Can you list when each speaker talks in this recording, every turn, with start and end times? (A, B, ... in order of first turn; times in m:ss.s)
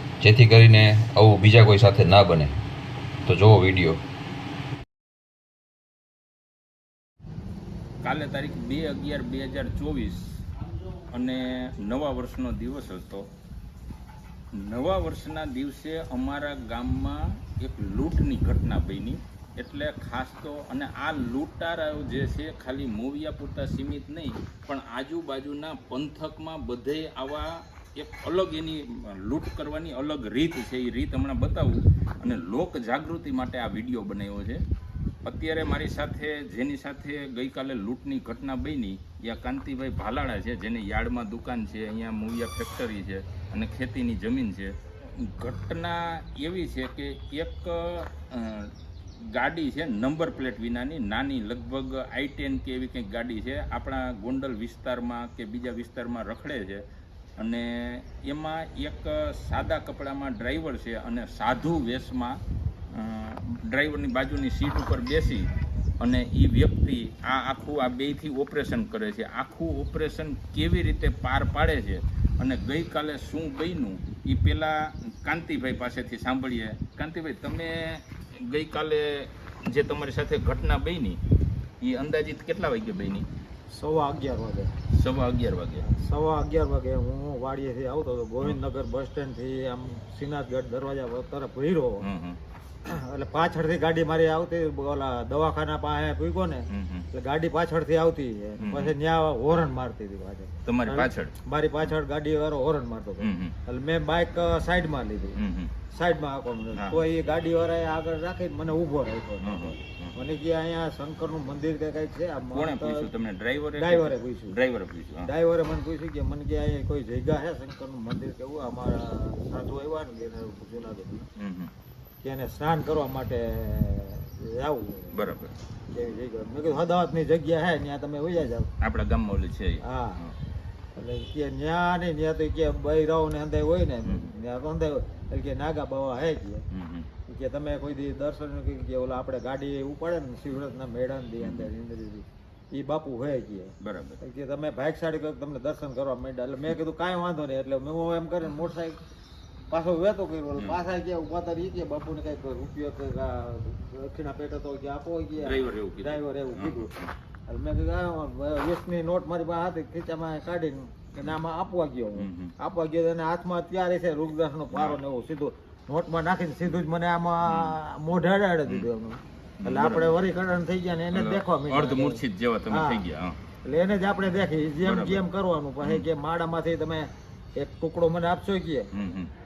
0:00.2-0:02.6 A
0:03.3-0:04.0 A
0:08.0-0:10.4 B
0:11.1-0:13.3 B
0:14.5-0:34.6 B
0:35.2-0:56.8 B
0:57.4-1:02.4 B
1:02.9-1:21.2 B
1:21.8-1:23.3 B
1:23.7-1:24.7 C
1:24.9-1:25.8 B
1:25.8-1:32.0 C
1:32.0-1:32.4 B
1:32.8-1:45.4 C
1:36.7-1:37.1 B
1:38.6-1:38.9 B
1:40.6-1:41.9 B
1:43.2-1:43.5 B
1:45.4-1:45.7 B
1:45.9-1:53.1 C
1:46.7-1:47.0 B
1:49.4-1:50.1 B
1:52.5-1:55.3 B
1:53.8-1:54.6 C
1:55.2-2:01.2 C
2:01.4-2:01.7 B
2:02.2-2:05.1 C
2:05.1-2:05.5 B
2:05.9-2:08.7 C
2:08.8-2:10.4 B
2:09.8-2:10.2 C
2:10.9-2:16.6 C
2:16.7-2:17.1 B
2:17.3-2:29.0 C
2:21.4-2:21.7 B
2:23.8-2:24.2 B
2:29.7-2:36.9 C
2:35.4-2:37.1 B
2:37.5-2:53.0 C
2:42.2-2:42.5 B
2:44.7-2:45.0 B
2:47.4-2:47.8 B
2:49.6-2:50.2 B
2:51.1-2:53.4 B
2:53.6-2:58.9 C
2:54.8-2:55.2 B
2:58.9-2:59.3 B